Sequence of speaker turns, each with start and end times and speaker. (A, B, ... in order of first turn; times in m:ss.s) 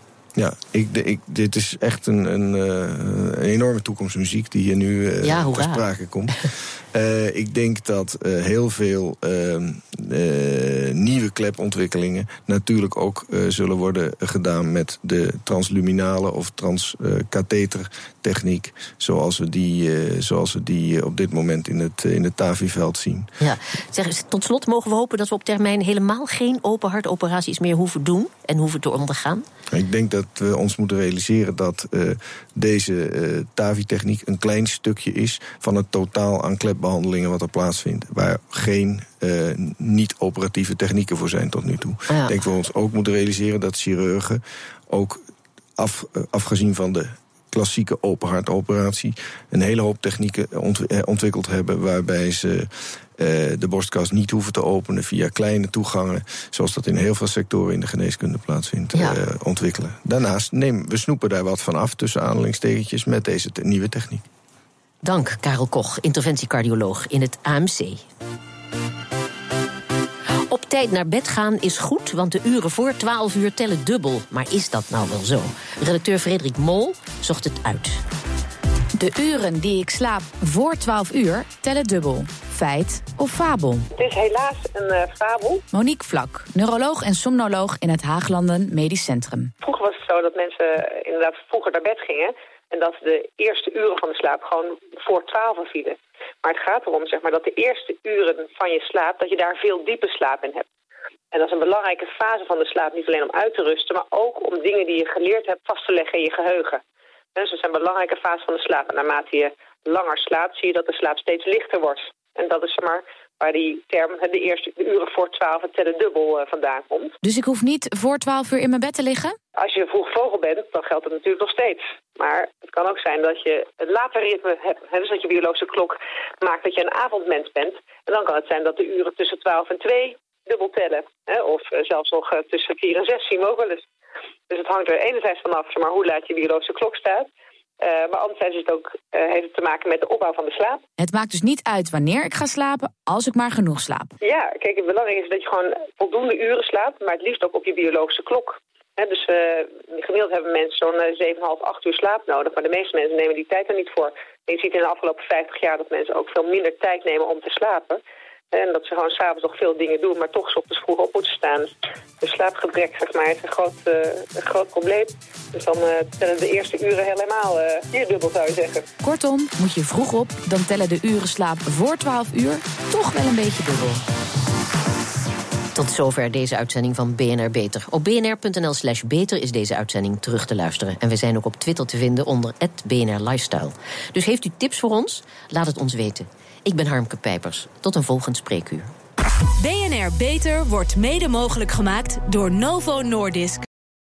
0:00.4-0:23.3 A
0:05.2-0:05.8 B
0:23.4-0:29.4 B
0:29.7-0:45.2 A
0:42.1-0:42.3 B
0:45.8-1:04.3 A
0:58.9-0:59.2 B
1:05.0-1:08.0 B
1:10.5-1:18.0 B
1:19.0-1:23.8 C
1:23.9-1:25.6 D
1:25.7-1:29.5 C
1:29.6-1:40.7 D
1:41.3-1:46.8 D
1:47.3-1:57.1 D
1:57.2-1:59.4 C
1:59.6-2:13.8 D
2:14.5-2:17.3 D
2:17.8-2:20.8 D
2:21.0-2:24.1 C
2:24.2-2:38.0 D
2:38.5-2:48.9 D
2:49.0-2:54.0 C
2:55.7-3:08.9 B
3:09.6-3:13.6 E